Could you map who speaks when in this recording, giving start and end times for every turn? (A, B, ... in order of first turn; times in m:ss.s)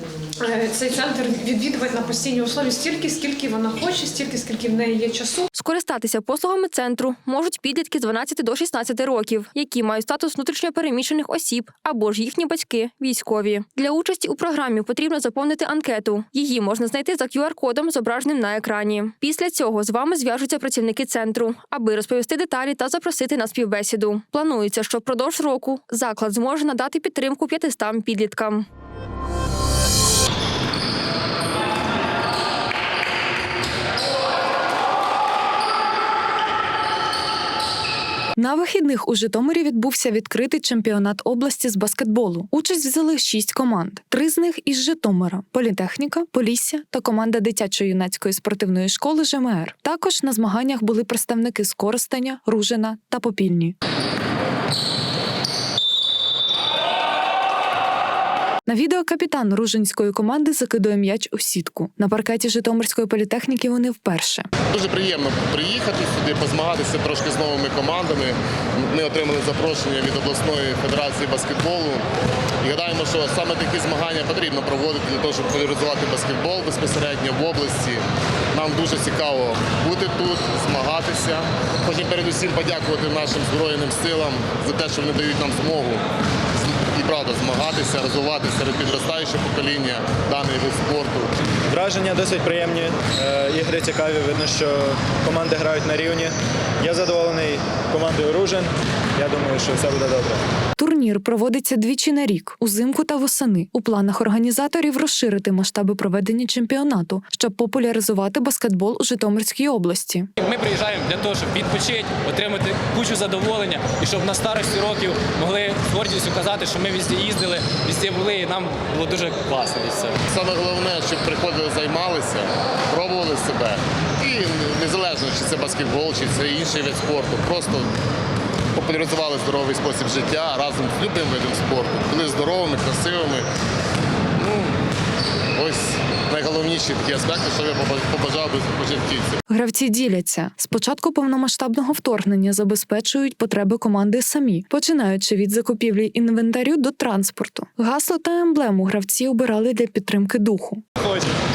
0:00.4-0:05.5 A
0:05.5-0:28.6 B
0:38.4-0:53.7 C
0:58.7-1:04.5 C
1:04.7-1:12.0 D
1:12.6-1:18.0 D
1:18.5-1:26.0 D
1:26.6-1:31.3 D
1:31.7-1:40.4 E
1:40.8-1:50.3 C
1:50.4-2:00.1 F
2:00.3-2:07.9 D
2:08.8-2:13.4 D
2:14.4-2:14.8 D
2:15.6-2:19.4 D
2:19.5-2:30.8 C